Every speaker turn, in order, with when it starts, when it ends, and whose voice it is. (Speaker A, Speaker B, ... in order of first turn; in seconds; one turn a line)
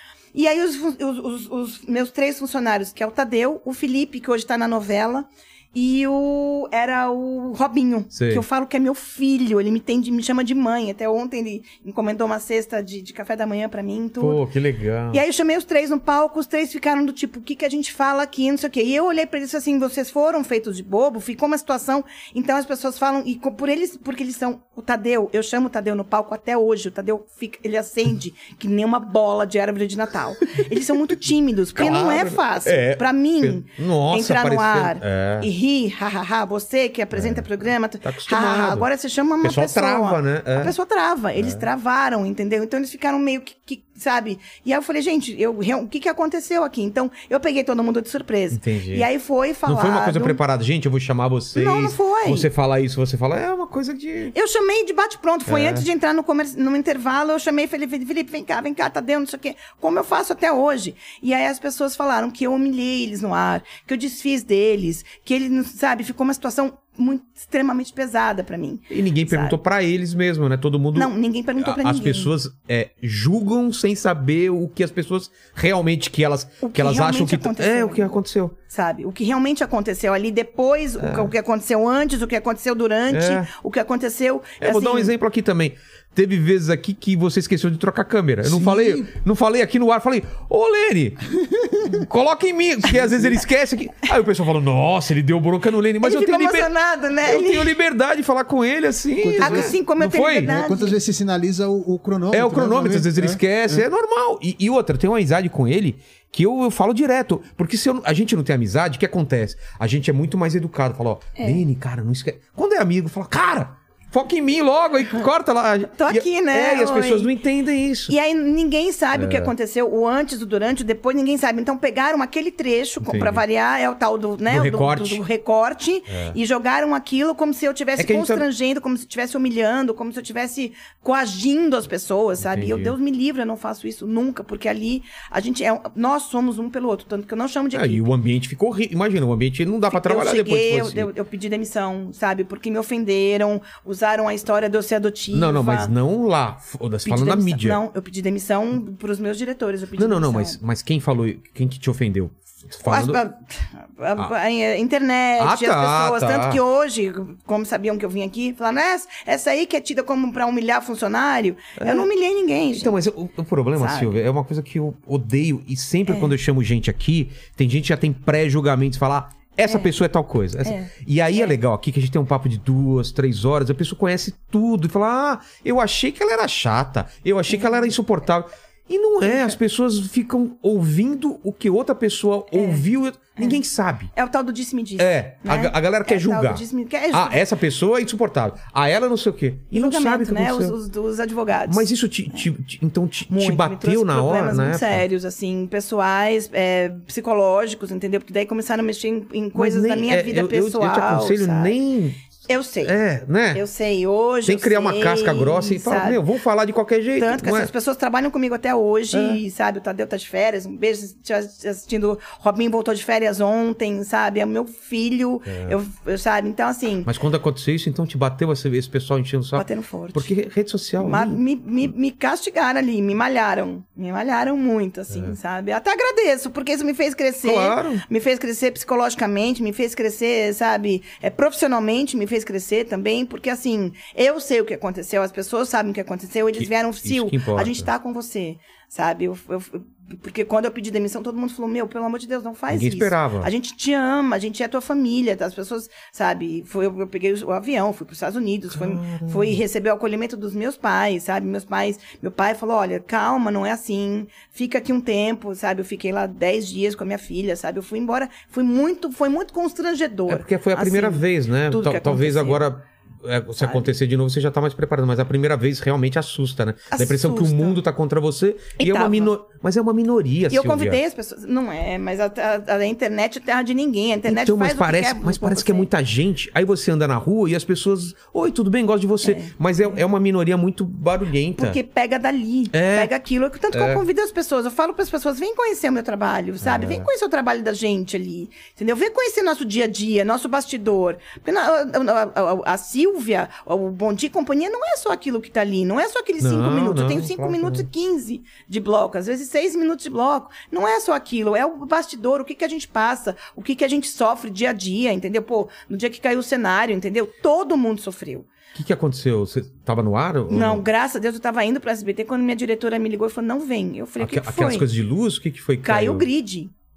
Speaker A: 0.3-14.4
Speaker B: 8.1-8.4
Speaker B: 14.2-15.2
Speaker A: 15.1-50.4
Speaker B: 31.8-35.5
Speaker B: 37.1-38.9
Speaker B: 39.4-40.8
Speaker B: 41.4-41.6
Speaker B: 48.5-49.1
Speaker B: 49.7-54.3
Speaker A: 51.5-52.5
Speaker A: 54.3-69.6
Speaker B: 55.5-55.9
Speaker B: 68.9-78.5
Speaker A: 71.0-72.3
Speaker A: 76.6-78.2
Speaker A: 78.7-85.1
Speaker B: 81.0-81.3
Speaker B: 83.1-83.5
Speaker B: 84.6-91.3
Speaker C: 88.5-89.1
Speaker B: 91.8-96.7
Speaker A: 96.0-97.8
Speaker B: 97.2-100.5
Speaker C: 99.2-99.8
Speaker A: 99.4-101.0
Speaker C: 100.4-103.9
Speaker B: 102.3-118.1
Speaker A: 111.4-111.6
Speaker A: 115.9-117.3
Speaker A: 118.1-138.0
Speaker B: 119.1-119.5
Speaker B: 123.0-123.4
Speaker B: 124.5-125.2
Speaker B: 126.1-126.4
Speaker B: 128.0-128.4
Speaker B: 132.4-132.9
Speaker B: 137.7-141.1
Speaker A: 139.9-145.9
Speaker B: 145.3-147.8
Speaker A: 147.1-150.6
Speaker B: 150.0-153.2
Speaker A: 152.9-162.9
Speaker B: 155.4-156.6
Speaker B: 161.8-162.1
Speaker B: 162.7-184.1
Speaker A: 163.8-164.1
Speaker A: 166.1-166.3
Speaker A: 169.7-169.9
Speaker A: 170.6-171.6
Speaker A: 177.5-177.9
Speaker A: 179.2-179.6
Speaker A: 182.5-182.8
Speaker A: 184.1-187.4
Speaker B: 185.0-190.8
Speaker A: 189.7-192.5
Speaker B: 191.7-195.0
Speaker A: 193.3-201.8
Speaker B: 199.6-202.3
Speaker A: 202.5-203.0
Speaker B: 202.8-203.6
Speaker A: 203.5-206.2
Speaker B: 204.4-207.7
Speaker A: 207.2-217.1
Speaker B: 209.1-209.4
Speaker B: 215.5-215.8
Speaker B: 217.1-221.4
Speaker A: 219.6-220.3
Speaker A: 221.0-262.7
Speaker B: 225.1-225.4
Speaker B: 227.4-228.0
Speaker B: 236.6-237.9
Speaker B: 242.7-243.5
Speaker B: 248.7-249.6
Speaker B: 260.3-271.0
Speaker A: 263.6-263.9
Speaker A: 266.9-267.8
Speaker A: 268.8-269.3
Speaker A: 270.5-275.9
Speaker B: 274.3-281.8
Speaker A: 279.2-280.0
Speaker A: 281.6-308.5
Speaker B: 282.7-283.1
Speaker B: 283.7-284.0
Speaker B: 286.6-287.1
Speaker B: 296.4-297.9
Speaker B: 308.7-310.9
Speaker A: 310.5-314.9
Speaker B: 314.2-316.3
Speaker A: 315.8-316.7